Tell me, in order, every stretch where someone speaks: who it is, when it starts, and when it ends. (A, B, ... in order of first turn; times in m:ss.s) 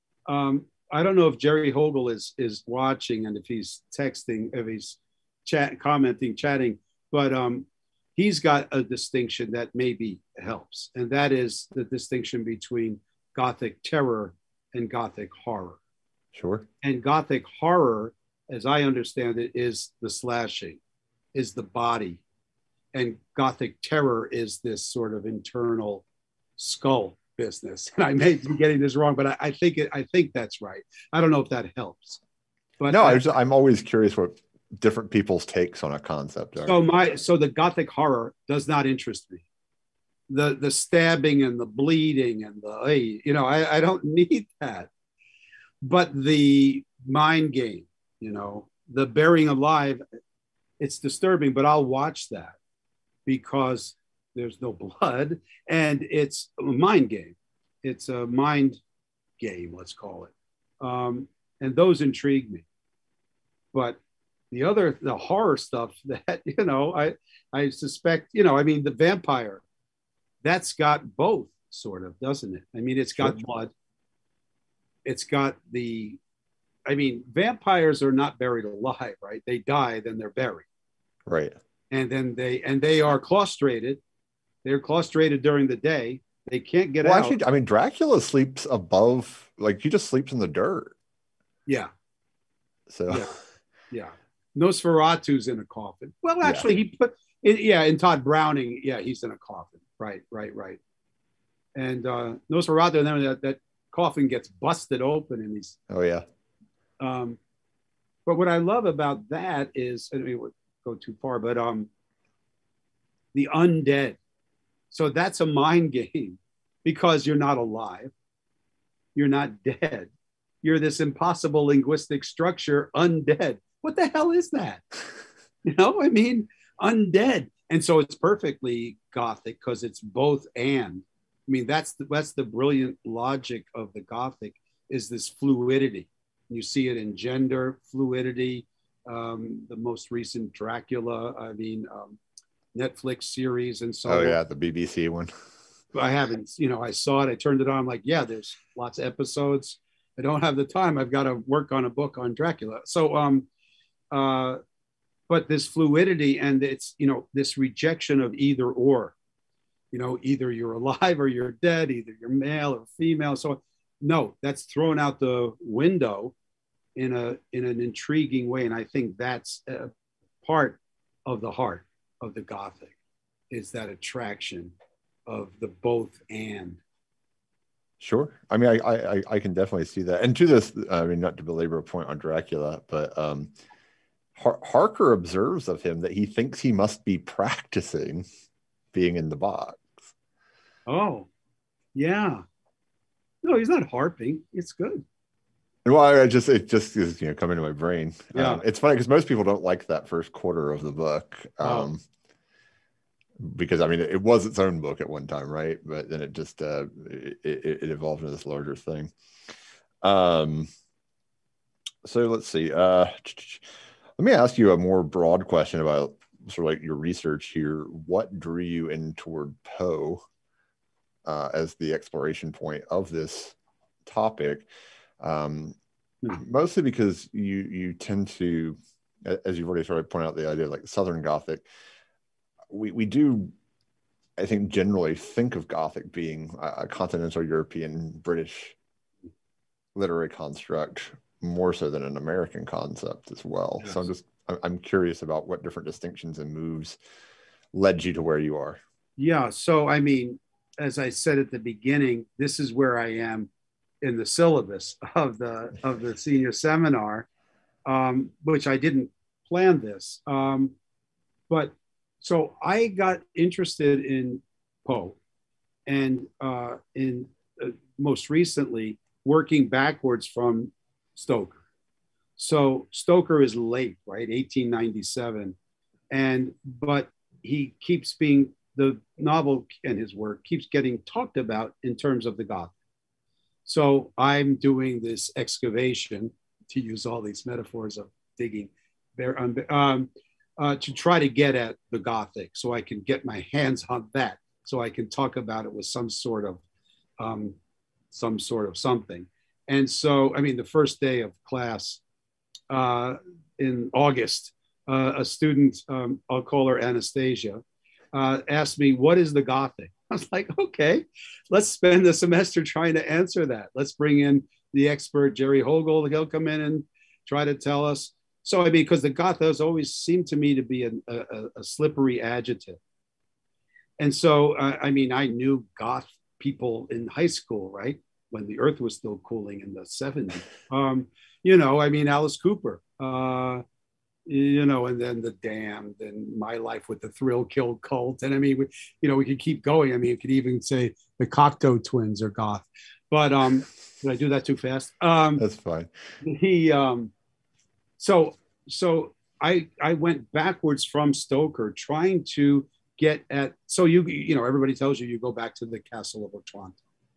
0:00.3-0:15.8 A
0:16.3-0:16.7 B
0:16.8-0:20.8 A
0:21.3-0:22.2 A
0:22.9-0:26.0 A
0:26.6-0:32.2 A
0:32.8-0:33.2 A
0:32.9-0:36.8 B
0:36.6-0:39.4 A
0:40.3-0:44.9 A
0:45.8-0:50.0 A
0:50.8-0:52.6 A
0:53.3-0:58.8 A
0:59.4-1:02.6 A
1:04.5-1:09.6 A
1:10.4-1:13.7 A
1:15.0-1:16.2 A
1:16.9-1:20.7 A
1:21.3-1:21.6 B
1:21.9-1:24.0 A
1:24.6-1:27.4 A
1:27.0-1:31.0 B
1:32.9-1:33.4 B
1:33.1-1:33.4 A
1:33.9-1:40.8 A
1:36.4-1:36.7 B
1:41.7-1:45.8 A
1:45.9-1:46.3 B
1:47.0-1:47.4 A
1:48.3-1:51.9 A
1:53.3-1:54.2 A
1:54.9-1:58.1 A
1:59.2-2:00.1 A
2:00.6-2:04.8 A
2:05.7-2:22.2 A
2:22.7-2:24.4 A
2:24.0-2:25.3 B
2:25.9-2:33.5 A
2:34.1-2:34.6 A
2:35.3-2:39.1 A
2:39.9-2:46.3 A
2:47.0-2:49.9 A
2:50.4-2:53.0 A
2:53.5-2:54.7 A
2:55.3-2:56.8 A
2:58.0-3:03.5 B
3:04.4-3:08.3 B
3:08.9-3:10.0 B
3:10.9-3:11.3 A
3:12.0-3:12.4 A
3:13.4-3:15.0 A
3:15.8-3:22.0 B
3:18.3-3:18.6 A
3:21.6-3:21.9 A
3:23.4-3:29.1 B
3:30.0-3:30.7 B
3:32.0-3:40.2 B
3:41.2-3:44.7 B
3:45.2-3:45.8 B
3:46.3-3:51.7 B
3:52.7-3:53.5 B
3:54.4-3:58.8 B
4:00.0-4:07.0 B
4:07.7-4:08.8 B
4:09.2-4:13.5 A
4:14.0-4:17.3 A
4:17.9-4:20.7 A
4:21.5-4:25.2 A
4:25.9-4:31.6 A
4:32.4-4:35.6 A
4:36.1-4:42.7 A
4:43.7-4:56.6 A
4:57.2-4:57.6 A
4:58.1-5:02.0 A
5:02.7-5:07.6 A
5:08.1-5:22.8 A
5:24.0-5:33.6 A
5:34.3-5:45.4 A
5:45.4-5:45.9 B
5:46.2-5:47.1 A
5:48.0-5:56.8 A